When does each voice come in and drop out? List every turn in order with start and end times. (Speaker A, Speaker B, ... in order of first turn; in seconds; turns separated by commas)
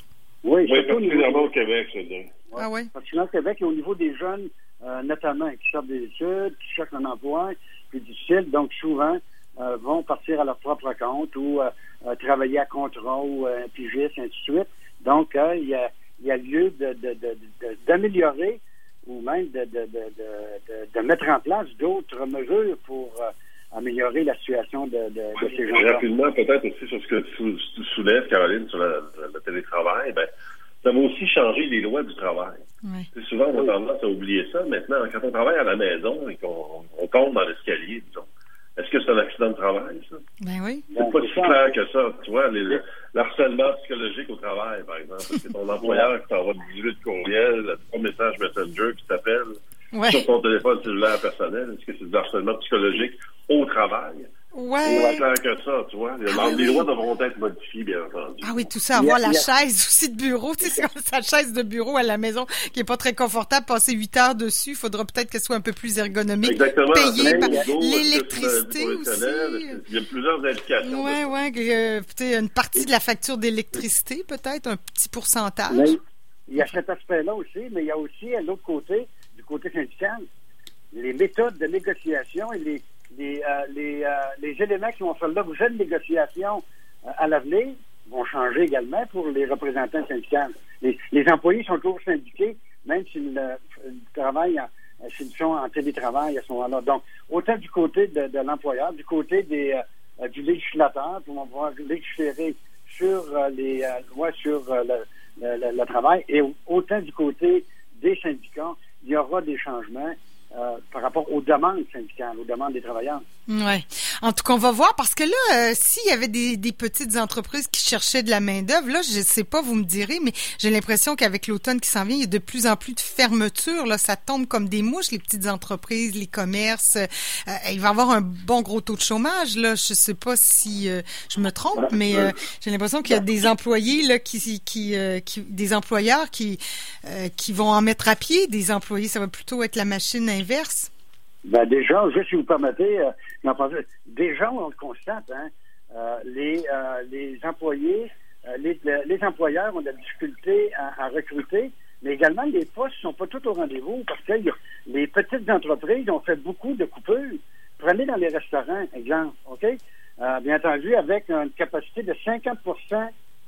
Speaker A: 0.4-1.5, Speaker B: 0.7-2.3, Speaker A: 2.5-26.0, Speaker C: 2.6-2.9, Speaker B: 25.7-30.3, Speaker B: 30.8-32.6, Speaker B: 33.1-40.2, Speaker C: 40.4-40.9, Speaker A: 40.9-41.7, Speaker B: 41.0-49.5, Speaker A: 45.8-46.1, Speaker C: 49.9-50.2, Speaker B: 50.1-54.3, Speaker C: 54.5-55.2, Speaker A: 54.8-55.2, Speaker B: 54.9-58.6, Speaker C: 56.3-56.9, Speaker C: 58.4-69.8, Speaker A: 58.9-59.5, Speaker B: 66.4-71.3, Speaker A: 67.2-67.7, Speaker C: 70.8-75.9, Speaker A: 75.7-80.2, Speaker A: 80.9-113.2, Speaker C: 113.5-140.9, Speaker A: 141.4-163.1